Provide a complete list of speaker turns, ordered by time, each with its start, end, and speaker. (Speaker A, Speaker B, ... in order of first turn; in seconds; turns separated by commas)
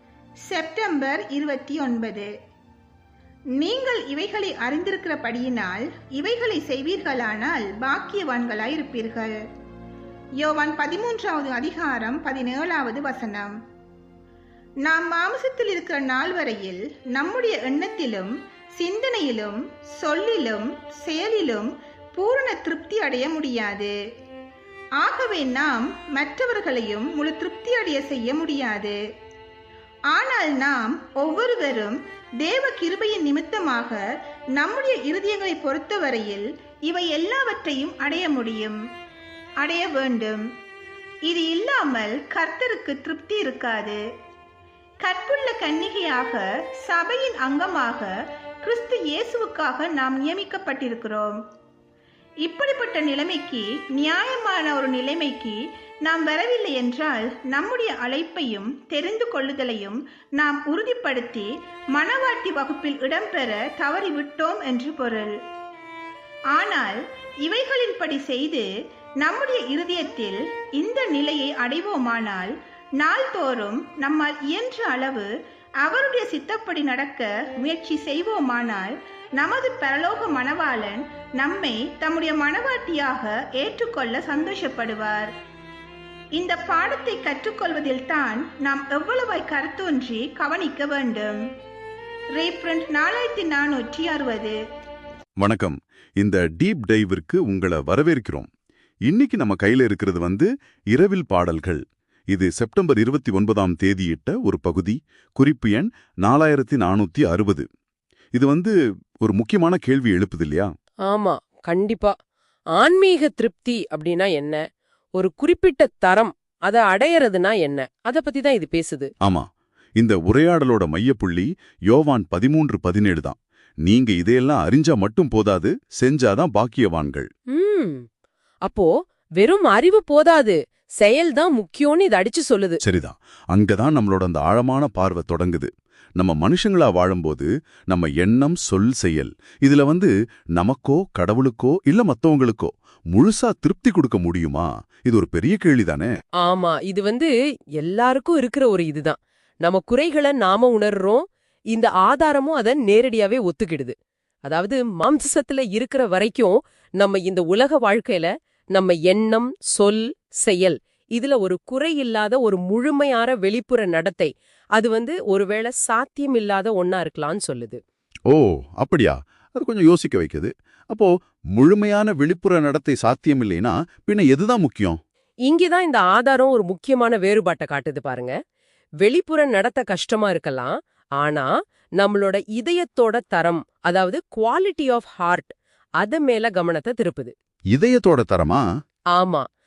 Speaker A: 0.5-2.3, Speaker A: 3.6-9.4, Speaker A: 10.4-13.5, Speaker A: 14.8-23.9, Speaker A: 25.0-29.0, Speaker A: 30.1-34.0, Speaker A: 34.6-38.8, Speaker A: 39.6-40.4, Speaker A: 41.3-44.0, Speaker A: 45.0-48.1, Speaker A: 48.6-51.4, Speaker A: 52.4-65.3, Speaker A: 66.5-68.7, Speaker A: 69.2-75.3, Speaker A: 75.8-85.3, Speaker A: 86.4-91.4, Speaker A: 92.4-94.6, Speaker B: 95.4-98.5, Speaker B: 99.1-107.7, Speaker B: 108.3-110.7, Speaker C: 111.1-112.1, Speaker C: 112.8-114.6, Speaker C: 115.2-119.1, Speaker B: 119.2-119.5, Speaker B: 120.0-127.3, Speaker C: 127.5-128.1, Speaker C: 128.6-132.8, Speaker B: 132.8-146.1, Speaker C: 146.4-153.9, Speaker C: 154.5-167.8, Speaker B: 168.3-175.0, Speaker C: 175.5-178.3, Speaker C: 179.0-181.5, Speaker C: 182.0-187.3, Speaker B: 187.7-188.6, Speaker C: 189.2-189.4